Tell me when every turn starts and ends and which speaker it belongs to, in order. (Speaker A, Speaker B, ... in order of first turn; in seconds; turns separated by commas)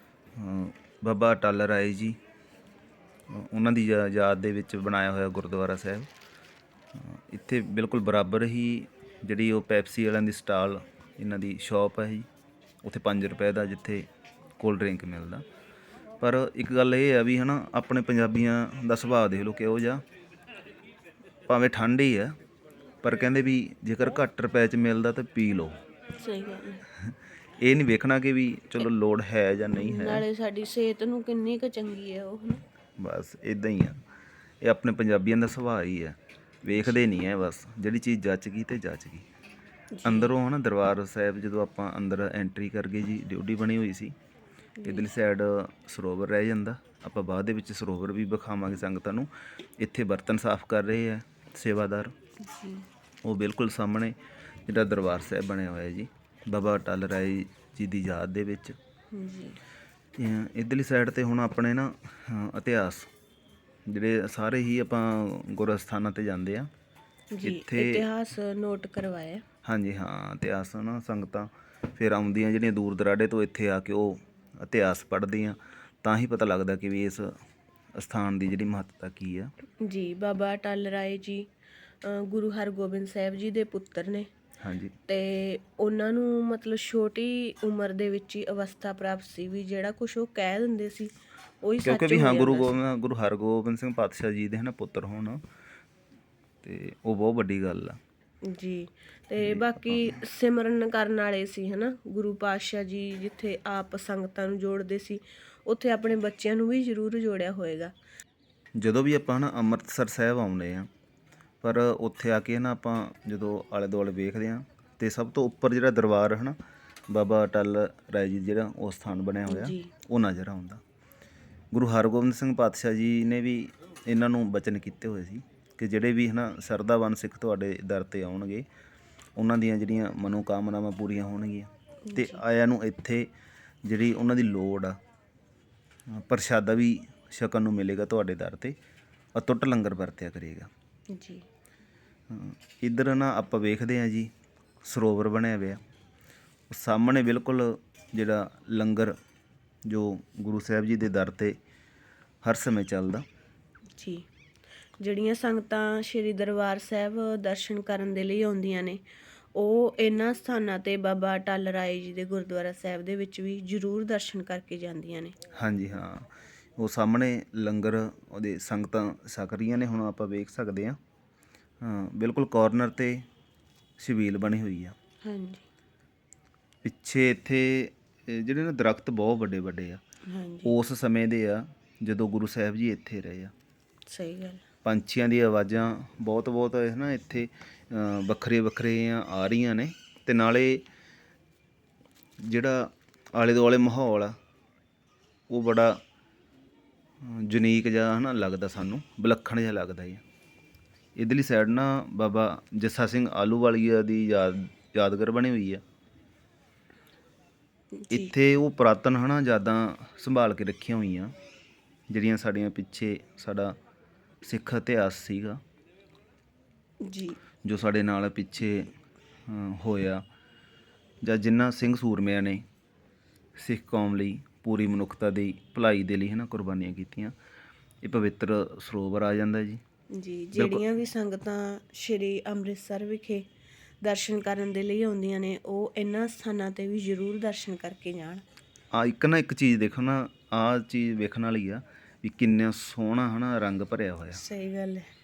Speaker A: 0.3-2.2, Speaker A: 3.3-6.1, Speaker A: 6.9-12.3, Speaker A: 12.8-14.1, Speaker A: 14.6-15.4, Speaker A: 16.2-20.0, Speaker A: 21.5-22.3, Speaker A: 23.0-25.8, Speaker B: 26.2-26.8, Speaker A: 27.0-30.2, Speaker B: 29.7-32.6, Speaker A: 33.0-34.0, Speaker A: 34.6-39.3, Speaker B: 36.7-37.0, Speaker B: 40.0-40.3, Speaker A: 40.0-44.1, Speaker B: 44.8-45.1, Speaker A: 44.8-52.1, Speaker B: 52.4-52.9, Speaker A: 53.2-54.1, Speaker A: 54.6-58.8, Speaker B: 59.1-59.6, Speaker A: 60.2-63.1, Speaker A: 63.9-66.7, Speaker B: 67.3-69.4, Speaker A: 67.4-68.0, Speaker A: 69.6-77.4, Speaker A: 78.0-79.5, Speaker B: 79.8-81.5, Speaker B: 82.0-84.3, Speaker A: 84.6-85.0, Speaker B: 85.1-92.8, Speaker A: 91.8-95.4, Speaker A: 96.6-98.0, Speaker B: 98.4-107.9, Speaker A: 99.4-100.2, Speaker A: 108.8-110.9, Speaker A: 111.6-116.6, Speaker A: 117.1-120.8, Speaker B: 119.5-119.9, Speaker A: 121.7-128.7, Speaker A: 129.4-133.3, Speaker B: 132.1-132.4, Speaker A: 133.8-135.0, Speaker A: 136.1-138.8, Speaker A: 139.3-140.7, Speaker B: 141.1-141.4, Speaker A: 142.3-144.3, Speaker A: 144.8-145.8, Speaker A: 146.7-149.1, Speaker A: 149.8-151.6, Speaker A: 152.4-153.2, Speaker B: 154.0-154.2, Speaker B: 155.0-159.0, Speaker B: 159.5-165.3, Speaker A: 165.5-171.0, Speaker A: 171.8-173.2, Speaker A: 174.0-174.9, Speaker B: 175.2-175.6, Speaker A: 176.8-180.0, Speaker B: 180.3-180.8, Speaker A: 180.6-183.5, Speaker B: 184.1-184.6, Speaker A: 184.8-190.8, Speaker A: 192.4-194.3, Speaker A: 195.5-196.0, Speaker A: 197.2-200.2, Speaker A: 201.2-205.8, Speaker B: 208.0-208.3, Speaker A: 208.1-211.3, Speaker A: 212.1-213.7, Speaker A: 214.4-215.6, Speaker B: 217.0-217.4, Speaker A: 217.6-218.9, Speaker A: 219.5-220.2, Speaker A: 221.2-222.6, Speaker A: 223.6-227.3, Speaker A: 228.0-229.8, Speaker B: 230.1-233.4, Speaker A: 230.5-230.8, Speaker B: 234.0-238.4, Speaker A: 238.9-244.4, Speaker B: 244.3-245.1